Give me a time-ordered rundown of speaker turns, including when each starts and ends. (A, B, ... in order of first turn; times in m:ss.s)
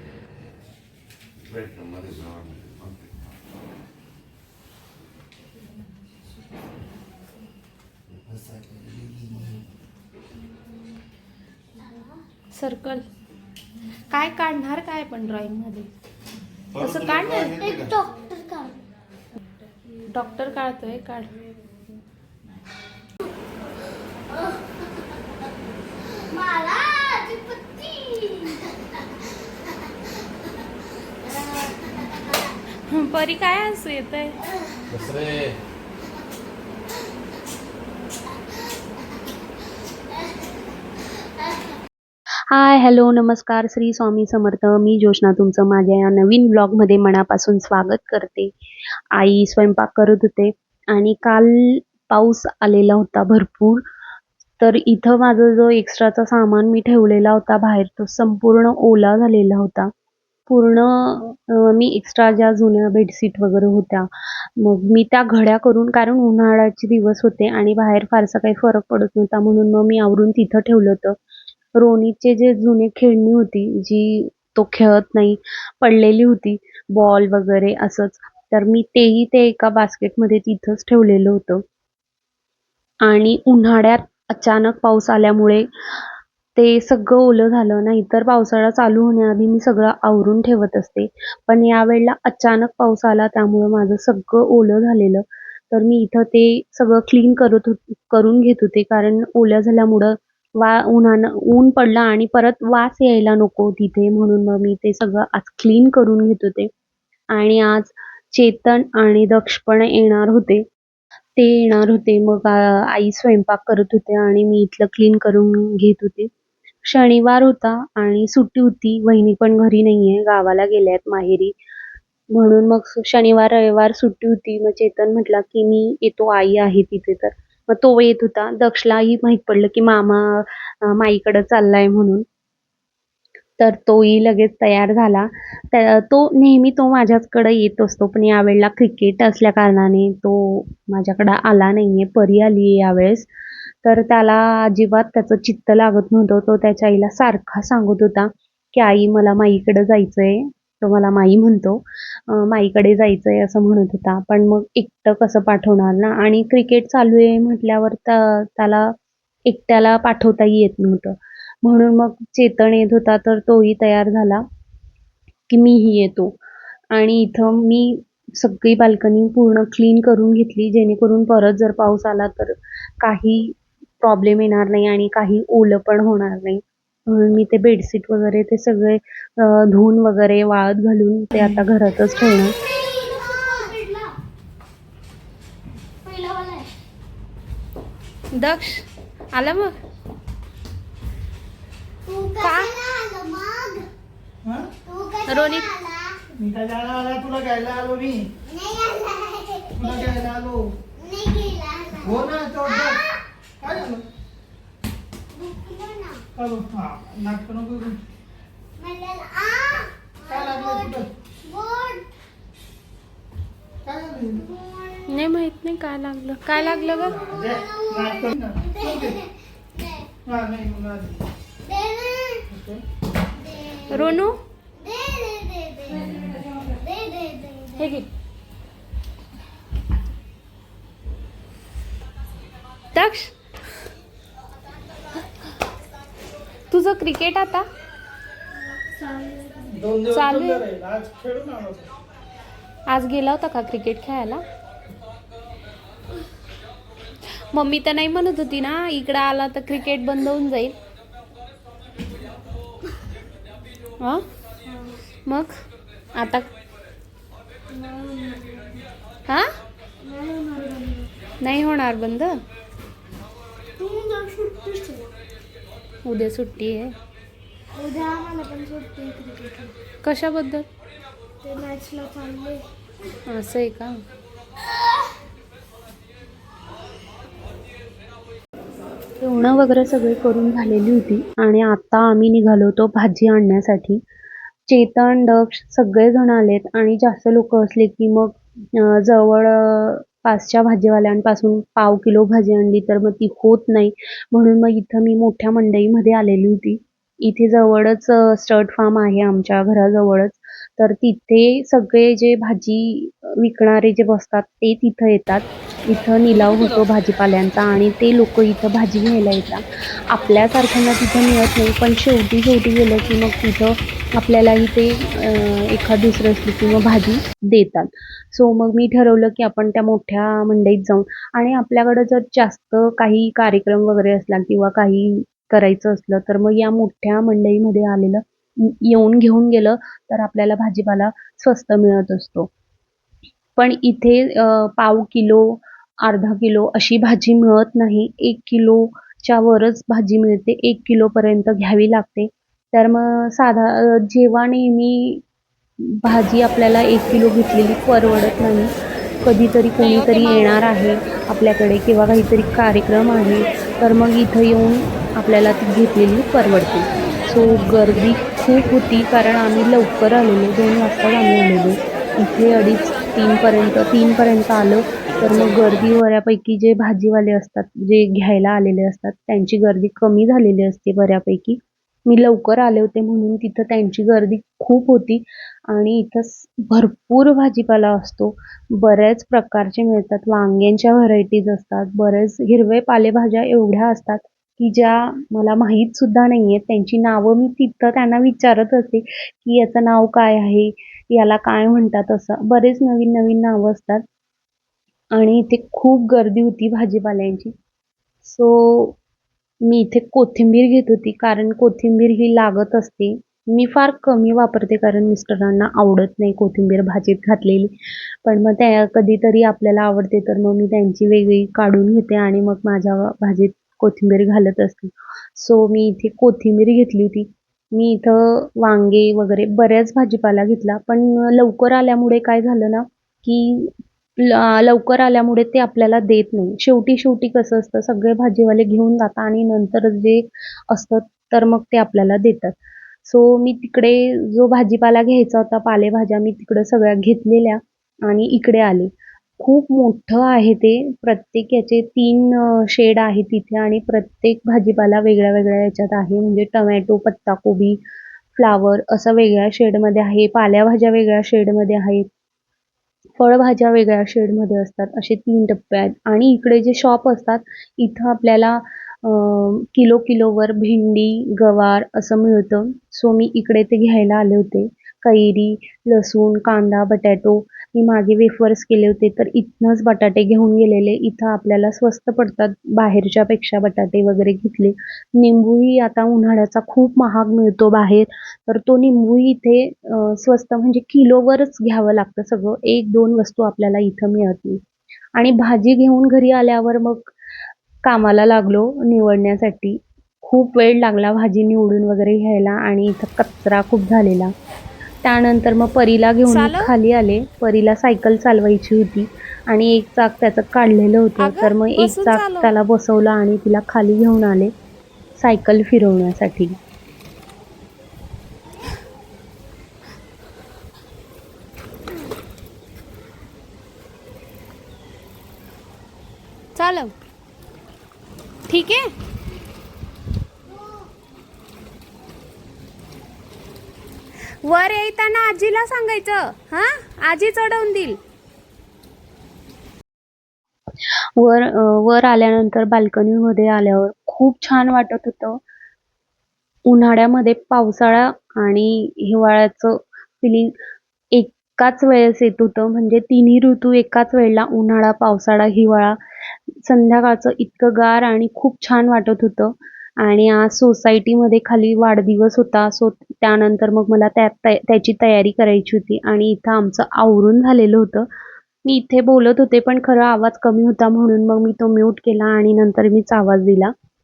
0:01.4-0:03.2 A
0:08.3-0:09.6 A
0:12.5-0:13.0 B
0:14.1-0:15.9 B
0:16.7-0:18.0 A
0:16.8-0:17.6 B
0:17.5-0:18.8 C
0:20.1-0:21.3 B
0:24.3-0:24.8 C
0:26.3-0:29.0 C
0:31.2-0:32.3 C
0:32.9-0:34.4 B
0:34.9-0:35.6 A
0:42.5-0:48.5 D
0:49.1-0:53.8 D
0:54.6-0:59.9 D
1:00.5-1:11.2 D
1:11.8-1:21.6 D
1:23.0-1:25.7 D
1:26.6-1:46.7 D
1:47.3-1:50.6 D
1:51.4-1:56.3 D
1:56.8-2:01.6 D
2:02.3-2:12.2 D
2:13.6-2:23.3 D
2:23.8-2:38.9 D
2:39.5-2:44.4 D
2:45.5-2:46.4 D
2:46.9-3:02.5 D
3:02.3-3:04.2 C
3:06.0-3:06.7 C
3:08.3-3:09.7 B
3:12.1-3:13.9 C
3:12.4-3:12.8 B
3:14.9-3:16.2 C
3:15.3-3:15.7 B
3:16.4-3:18.3 E
3:18.5-3:20.2 C
3:19.8-3:20.7 E
3:21.0-3:23.2 C
3:22.0-3:23.0 E
3:23.6-3:24.0 E
3:25.3-3:26.2 C
3:26.4-3:28.0 E
3:28.8-3:32.1 C
3:30.3-3:31.1 E
3:33.8-3:34.4 E
3:34.3-3:35.1 C
3:35.1-3:37.2 B
3:36.5-3:40.1 C
3:37.1-3:39.2 E
3:40.3-3:41.2 E
3:41.6-3:42.5 C
3:42.5-3:42.8 E
3:43.4-3:44.1 C
3:43.9-3:44.4 B
3:44.8-3:48.0 C
3:47.8-3:48.1 B
3:52.9-3:53.3 B
3:56.7-3:57.6 B
3:58.8-3:59.8 C
3:59.7-4:01.9 E
4:00.1-4:00.7 B
4:02.9-4:04.4 B
4:07.5-4:10.8 B
4:14.7-4:15.0 C
4:15.3-4:15.5 B
4:16.2-4:16.5 B
4:17.7-4:18.9 C
4:20.0-4:21.1 C
4:21.4-4:22.4 B
4:23.8-4:25.1 C
4:26.0-4:27.0 B
4:27.8-4:29.7 C
4:30.0-4:30.7 B
4:31.4-4:32.6 C
4:33.3-4:34.0 B
4:39.2-4:44.0 D
4:44.7-5:32.5 D
5:33.6-5:45.2 D
5:45.8-5:48.7 D
5:49.2-6:34.0 D
6:35.1-6:37.5 D
6:38.2-6:39.0 D
6:39.6-6:47.7 D
6:48.2-7:27.8 D
7:28.4-7:32.1 D
7:33.2-8:04.6 D
8:05.2-8:07.1 D
8:07.8-8:14.3 D
8:15.0-8:24.5 D
8:16.2-8:16.7 B
8:21.2-8:22.5 B
8:25.2-8:26.6 D
8:36.6-8:36.9 B
8:38.5-8:38.9 B
8:44.4-8:48.0 B
8:51.2-8:55.4 D
8:56.7-9:00.5 D
9:01.1-9:06.0 D
9:06.6-9:18.1 D
9:18.6-9:23.7 D